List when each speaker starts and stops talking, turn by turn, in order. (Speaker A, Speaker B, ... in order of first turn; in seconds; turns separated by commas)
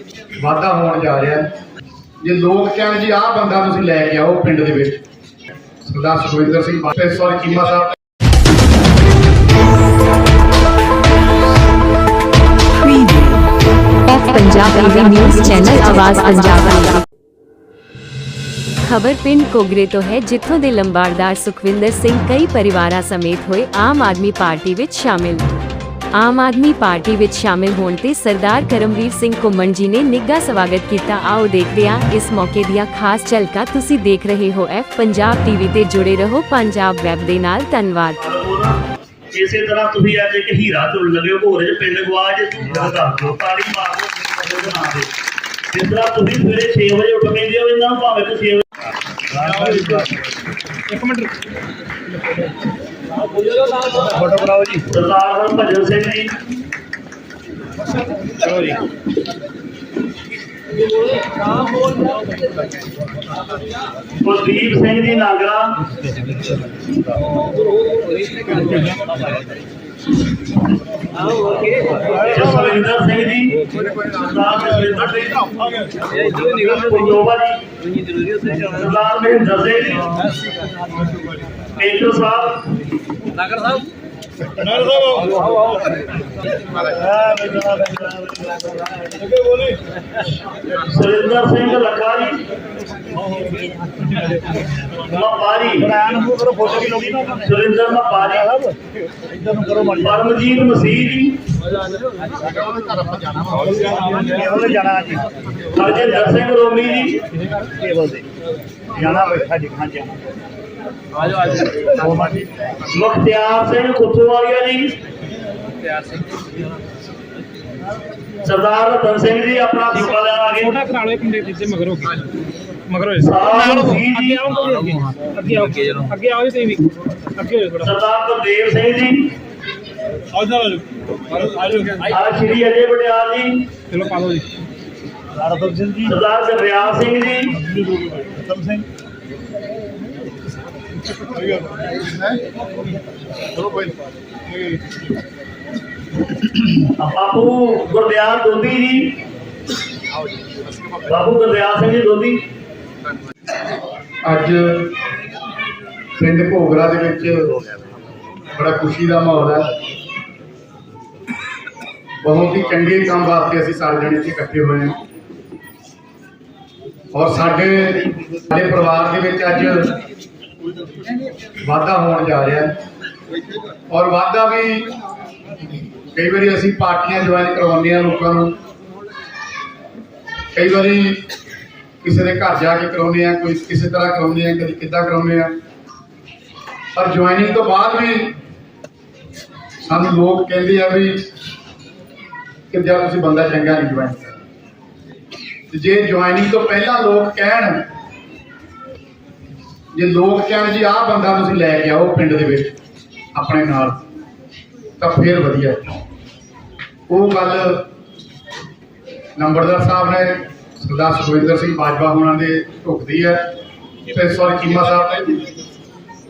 Speaker A: 0.4-1.5, Speaker A: 2.2-5.0, Speaker A: 5.8-7.9, Speaker B: 14.1-17.0, Speaker B: 18.8-25.5, Speaker B: 26.1-38.2, Speaker C: 38.2-45.1, Speaker C: 45.7-48.7, Speaker D: 49.4-50.1, Speaker E: 50.9-51.3, Speaker D: 53.9-54.9, Speaker C: 54.9-56.4, Speaker E: 58.4-58.8, Speaker C: 64.2-65.8, Speaker C: 71.4-75.6, Speaker C: 76.1-77.6, Speaker C: 78.2-80.2, Speaker C: 81.8-82.7, Speaker D: 84.8-85.2, Speaker D: 86.9-89.7, Speaker C: 90.8-92.5, Speaker C: 95.1-95.9, Speaker D: 95.8-97.4, Speaker C: 97.4-98.5, Speaker D: 99.3-100.0, Speaker C: 100.0-101.4, Speaker D: 103.5-105.3, Speaker C: 105.7-107.3, Speaker D: 107.6-108.2, Speaker D: 108.9-110.2, Speaker D: 111.7-112.5, Speaker C: 112.9-115.0, Speaker C: 118.4-120.9, Speaker E: 120.8-122.2, Speaker E: 122.9-123.2, Speaker C: 123.1-124.8, Speaker E: 123.9-127.8, Speaker C: 127.8-129.3, Speaker C: 132.0-133.7, Speaker E: 133.9-134.5, Speaker D: 135.4-136.1, Speaker C: 136.1-137.6, Speaker D: 138.0-138.8, Speaker C: 146.8-149.2, Speaker C: 151.0-152.4, Speaker A: 154.2-154.9, Speaker A: 156.2-157.6, Speaker A: 158.5-159.7, Speaker A: 162.2-165.0, Speaker A: 167.1-169.9, Speaker A: 171.6-172.7, Speaker A: 173.9-174.9, Speaker A: 176.1-178.5, Speaker A: 180.5-181.2, Speaker A: 182.0-185.6, Speaker A: 186.9-188.4, Speaker A: 189.8-191.3, Speaker A: 192.7-194.3, Speaker A: 195.7-197.8, Speaker A: 199.9-202.8, Speaker A: 203.3-204.0, Speaker A: 205.0-205.9, Speaker A: 207.1-207.9, Speaker A: 209.3-213.4, Speaker A: 214.1-215.3